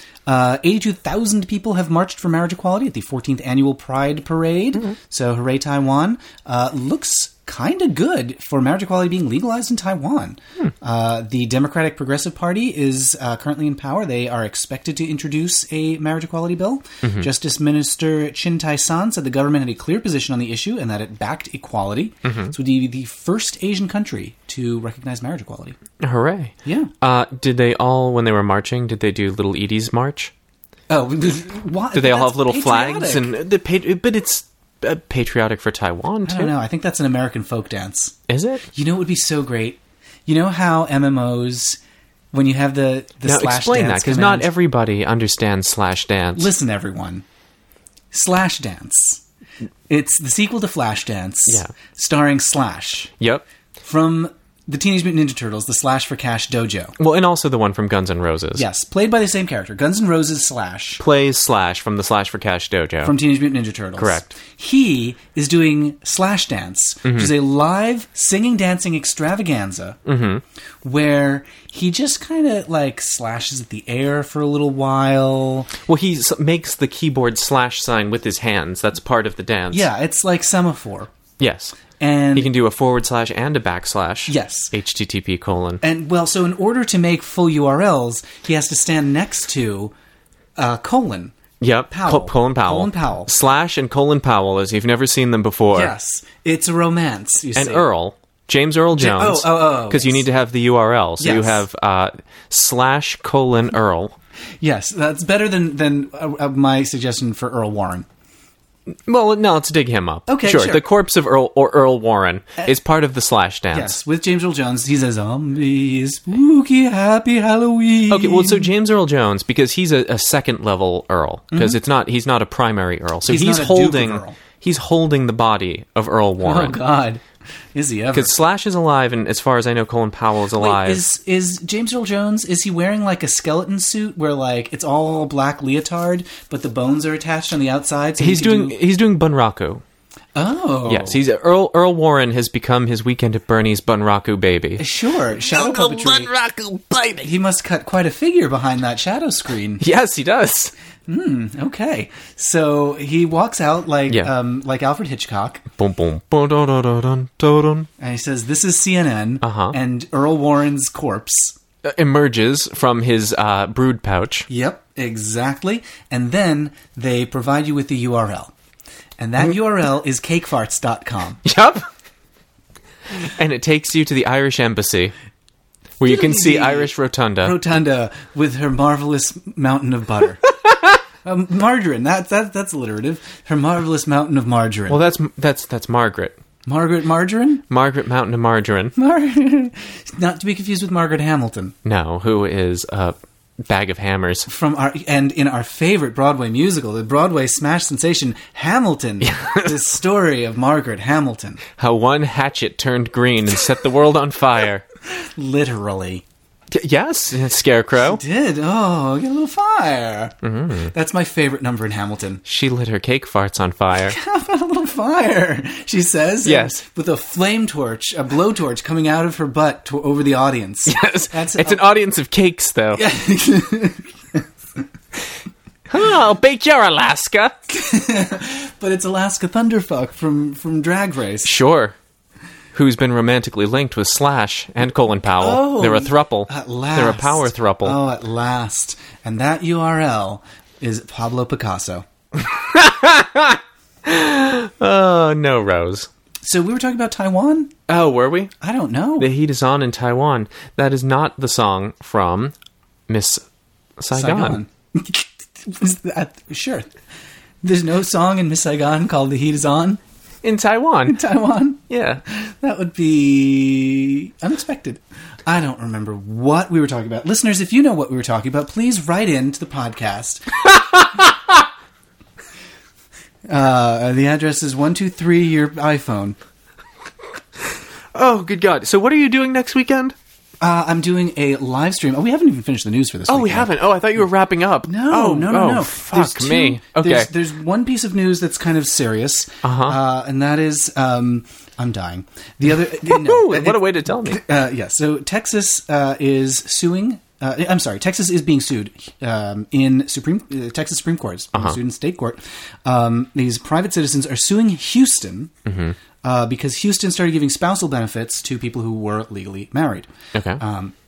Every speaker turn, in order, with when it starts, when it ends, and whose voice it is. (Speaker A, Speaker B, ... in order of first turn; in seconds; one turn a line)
Speaker A: 0.3-25.8
Speaker B: 22.2-22.5
Speaker B: 26.0-30.3
Speaker A: 26.6-26.9
Speaker A: 30.9-33.3
Speaker B: 31.9-36.5
Speaker A: 36.2-38.2
Speaker B: 38.3-38.6
Speaker A: 38.7-41.8
Speaker A: 42.3-44.5
Speaker B: 43.2-46.5
Speaker A: 46.4-47.2
Speaker A: 48.1-49.2
Speaker A: 49.9-53.1
Speaker B: 51.5-51.7
Speaker B: 53.2-53.4
Speaker A: 53.8-57.0
Speaker B: 57.0-58.6
Speaker A: 58.5-61.0
Speaker B: 61.0-63.1
Speaker A: 63.0-70.0
Speaker B: 64.0-64.3
Speaker B: 67.0-67.3
Speaker B: 70.1-70.4
Speaker A: 70.8-75.7
Speaker B: 75.8-79.9
Speaker A: 79.7-81.1
Speaker B: 81.4-81.8
Speaker A: 82.0-82.5
Speaker B: 82.3-85.8
Speaker A: 84.3-84.7
Speaker A: 85.8-89.9
Speaker A: 90.6-91.4
Speaker B: 91.6-95.9
Speaker A: 91.9-93.3
Speaker A: 95.7-97.9
Speaker B: 97.5-104.2
Speaker A: 99.0-100.2
Speaker A: 101.2-101.6
Speaker A: 104.6-108.1
Speaker B: 109.1-114.0
Speaker A: 110.3-110.8
Speaker A: 113.7-118.7
Speaker B: 118.1-126.8
Speaker A: 121.5-121.8
Speaker A: 123.3-124.4
Speaker A: 126.4-127.2
Speaker A: 127.8-128.3
Speaker B: 128.1-131.0
Speaker A: 130.6-138.8
Speaker B: 138.2-139.8
Speaker A: 140.3-141.2
Speaker B: 140.9-144.8
Speaker A: 144.8-146.3
Speaker C: 145.4-147.3
Speaker A: 147.2-149.8
Speaker B: 149.8-150.7
Speaker A: 151.1-155.7
Speaker B: 155.8-157.9
Speaker A: 158.0-161.6
Speaker B: 159.4-159.8
Speaker B: 161.8-164.5
Speaker A: 164.5-168.5
Speaker A: 169.2-171.4
Speaker B: 171.4-171.9
Speaker B: 173.1-175.1
Speaker B: 176.0-177.6
Speaker A: 176.0-180.5
Speaker A: 181.2-185.0
Speaker B: 184.9-186.4
Speaker A: 186.7-187.7
Speaker B: 187.7-188.9
Speaker A: 189.0-191.8
Speaker B: 191.8-194.5
Speaker A: 194.5-201.7
Speaker B: 199.2-199.8
Speaker B: 201.8-204.8
Speaker A: 205.2-206.2
Speaker B: 206.7-208.2
Speaker A: 208.1-212.4
Speaker B: 210.4-210.9
Speaker B: 212.4-214.2
Speaker A: 214.0-221.9
Speaker B: 216.4-216.8
Speaker B: 220.9-223.0
Speaker A: 222.9-224.4
Speaker B: 225.9-227.6
Speaker A: 227.7-231.5
Speaker B: 231.4-232.0
Speaker B: 232.7-238.0
Speaker A: 235.4-242.1
Speaker B: 242.3-246.1
Speaker A: 246.4-247.7
Speaker B: 247.9-248.5
Speaker A: 248.6-249.3
Speaker B: 249.2-252.6
Speaker B: 253.1-253.4
Speaker B: 254.0-254.6
Speaker A: 254.1-256.9
Speaker A: 257.6-260.0
Speaker B: 260.4-261.2
Speaker A: 261.1-270.6
Speaker B: 261.9-262.2
Speaker B: 270.9-271.3
Speaker A: 273.5-276.4
Speaker B: 278.1-280.2
Speaker A: 280.6-283.7
Speaker B: 283.3-287.3
Speaker A: 284.9-305.5
Speaker B: 289.6-290.0
Speaker B: 292.9-294.4
Speaker B: 305.7-306.0
Speaker A: 306.2-310.1
Speaker B: 310.3-310.6
Speaker A: 310.6-310.9